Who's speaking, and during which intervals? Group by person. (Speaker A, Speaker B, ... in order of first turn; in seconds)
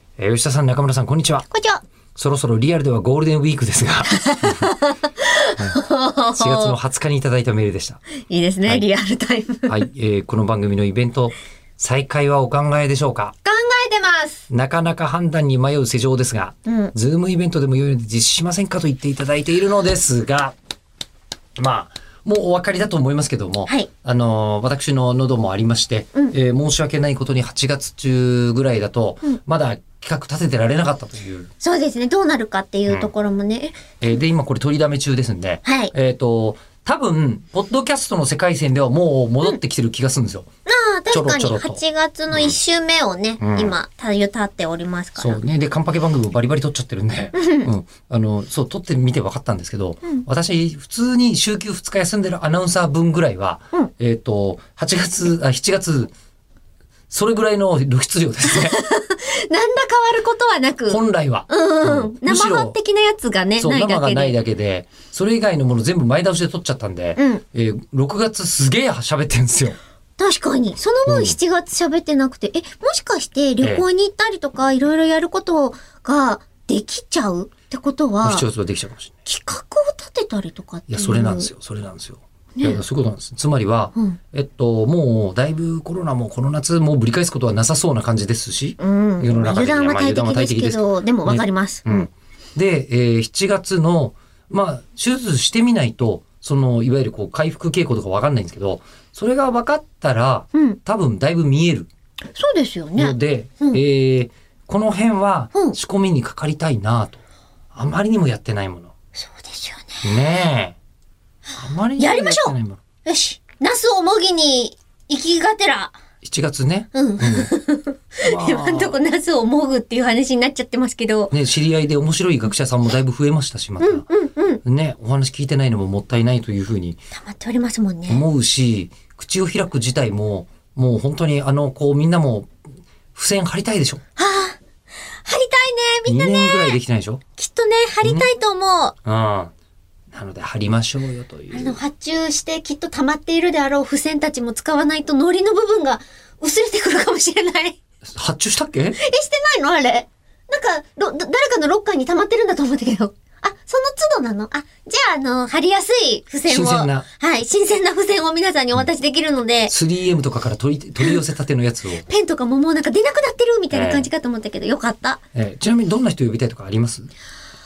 Speaker A: 0.2-1.5, 2.1-4.7, 6.3-8.0, 9.7-13.3, 14.5-20.6, 21.6-31.5, 34.0-40.5, 41.1-41.8, 43.4-43.8, 45.2-56.1, 57.1-58.8, 60.9-62.8, 63.6-69.8, 71.1-71.4, 78.2-79.2, 80.9-101.9, 103.0-107.2, 107.7-108.9, 110.0-110.8, 111.6-112.8, 116.2-117.5, 118.2-119.0, 121.3-124.0, 124.6-127.0, 128.1-132.5, 133.1-134.0, 136.1-137.2, 138.0-138.3, 139.0-139.5, 140.1-141.8, 148.0-149.0, 156.5-157.1, 159.7-162.0, 163.7-164.1, 165.3-167.1
Speaker B: 1.5-1.8, 4.0-6.7, 8.1-9.8, 13.4-14.4, 16.7-16.9, 31.6-33.8, 35.6-35.9, 40.7-45.4, 47.3-47.7, 58.5-64.4, 67.2-67.4, 70.2-78.5, 79.2-81.5, 88.8-92.1, 100.5-100.8, 102.3-103.8, 109.2-110.0, 112.0-116.0, 116.9-121.3, 123.8-124.6, 127.2-128.2, 134.2-134.6, 135.2-136.8, 137.4-138.9, 141.5-147.8, 149.0-159.7, 162.0-165.2